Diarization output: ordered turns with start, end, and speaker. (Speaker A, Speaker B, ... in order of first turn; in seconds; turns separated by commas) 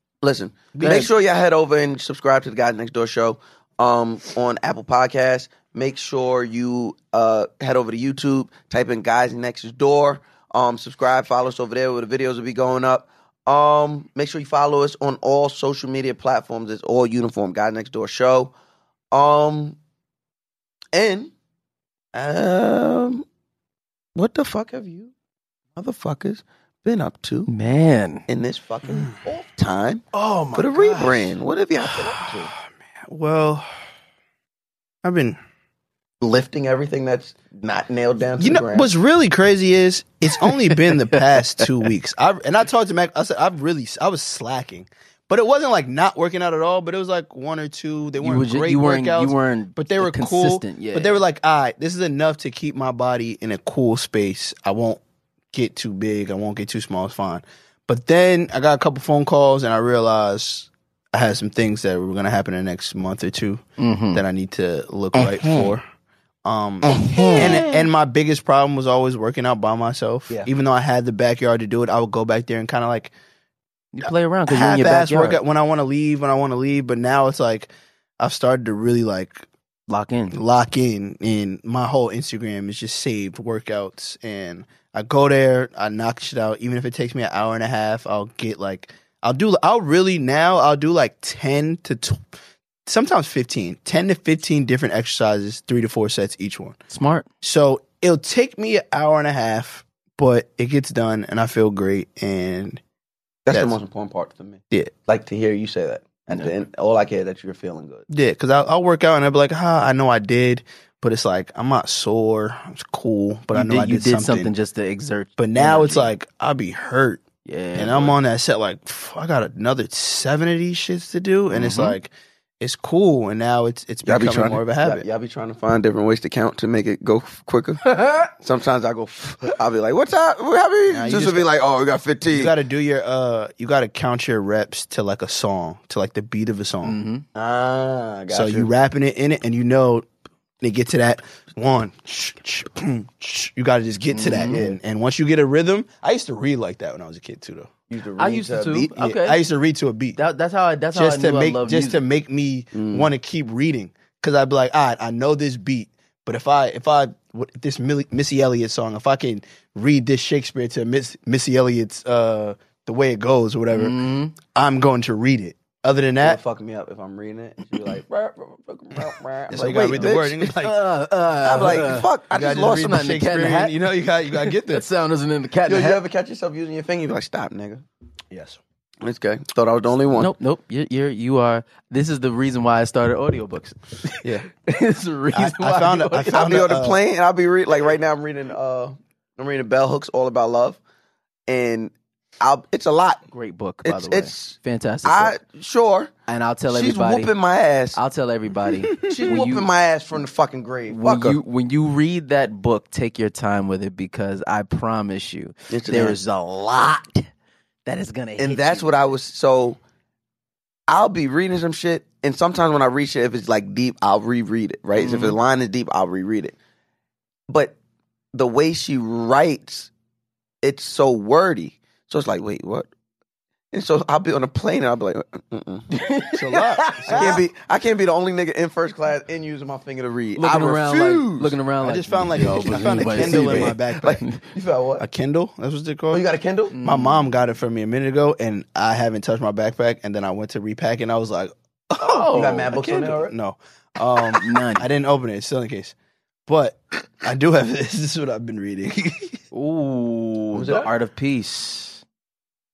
Speaker A: 0.2-18.5, Speaker B: 0.7-1.1, Speaker C: 0.8-1.1, Speaker A: 19.1-19.8, Speaker A: 20.9-21.3, Speaker A: 22.1-23.2, Speaker A: 24.1-25.1, Speaker A: 25.8-27.5, Speaker C: 27.5-28.2, Speaker A: 28.3-32.5, Speaker C: 30.1-31.3, Speaker B: 33.0-33.7, Speaker B: 35.0-35.4, Speaker A: 36.2-38.9, Speaker B: 38.4-55.0, Speaker C: 40.4-41.6, Speaker C: 48.2-51.2, Speaker B: 55.5-65.8, Speaker C: 63.8-64.2, Speaker C: 65.2-65.6, Speaker B: 66.4-73.1, Speaker C: 66.8-67.9, Speaker A: 66.9-67.6, Speaker C: 73.9-75.4, Speaker B: 74.0-79.5, Speaker C: 79.9-80.4, Speaker B: 80.3-92.2, Speaker B: 92.8-96.8, Speaker C: 96.9-97.3, Speaker B: 97.4-102.8, Speaker A: 103.5-108.0, Speaker B: 103.5-103.8, Speaker B: 108.1-114.5, Speaker C: 113.5-116.1, Speaker B: 115.4-125.0, Speaker C: 117.4-118.2, Speaker C: 121.5-122.0, Speaker A: 124.0-132.5, Speaker C: 128.0-128.2, Speaker B: 130.9-131.5, Speaker B: 132.3-137.0, Speaker C: 136.8-137.2, Speaker A: 137.3-138.7, Speaker B: 138.3-140.1, Speaker B: 140.6-147.7, Speaker C: 144.1-144.6, Speaker A: 144.3-144.8, Speaker A: 147.9-148.9, Speaker C: 148.2-149.4, Speaker B: 148.9-150.2, Speaker C: 150.2-152.0, Speaker B: 150.9-166.4, Speaker A: 152.7-153.1, Speaker C: 163.7-164.3, Speaker A: 166.2-170.5, Speaker B: 169.5-170.9, Speaker C: 170.6-172.1, Speaker A: 171.4-173.0, Speaker B: 171.6-174.8, Speaker C: 172.8-173.8, Speaker C: 174.3-176.0, Speaker A: 175.7-177.8, Speaker B: 178.3-178.6, Speaker A: 179.0-180.3, Speaker C: 180.1-186.5, Speaker B: 185.3-187.0, Speaker A: 186.3-190.8, Speaker A: 191.5-193.2, Speaker C: 193.3-195.3, Speaker A: 193.8-196.1, Speaker C: 196.3-197.3, Speaker A: 196.7-198.0, Speaker C: 197.9-199.7, Speaker B: 198.8-199.2, Speaker A: 199.0-201.4, Speaker C: 200.9-207.3, Speaker A: 205.7-206.2, Speaker C: 207.8-209.2, Speaker A: 208.4-209.8, Speaker A: 210.9-216.5, Speaker C: 215.0-215.4, Speaker A: 217.5-217.7, Speaker A: 218.3-219.9, Speaker A: 220.6-222.9, Speaker A: 223.7-225.8, Speaker C: 225.9-227.4, Speaker B: 226.3-227.4, Speaker A: 227.1-231.5, Speaker C: 230.3-234.3, Speaker B: 231.8-234.2, Speaker A: 232.5-235.0, Speaker B: 235.0-236.2, Speaker A: 236.1-236.8, Speaker C: 236.7-237.3, Speaker B: 236.8-245.9, Speaker C: 242.0-242.8, Speaker A: 242.3-243.3, Speaker C: 244.4-244.9, Speaker B: 246.5-249.4, Speaker C: 249.5-252.0, Speaker A: 250.5-250.9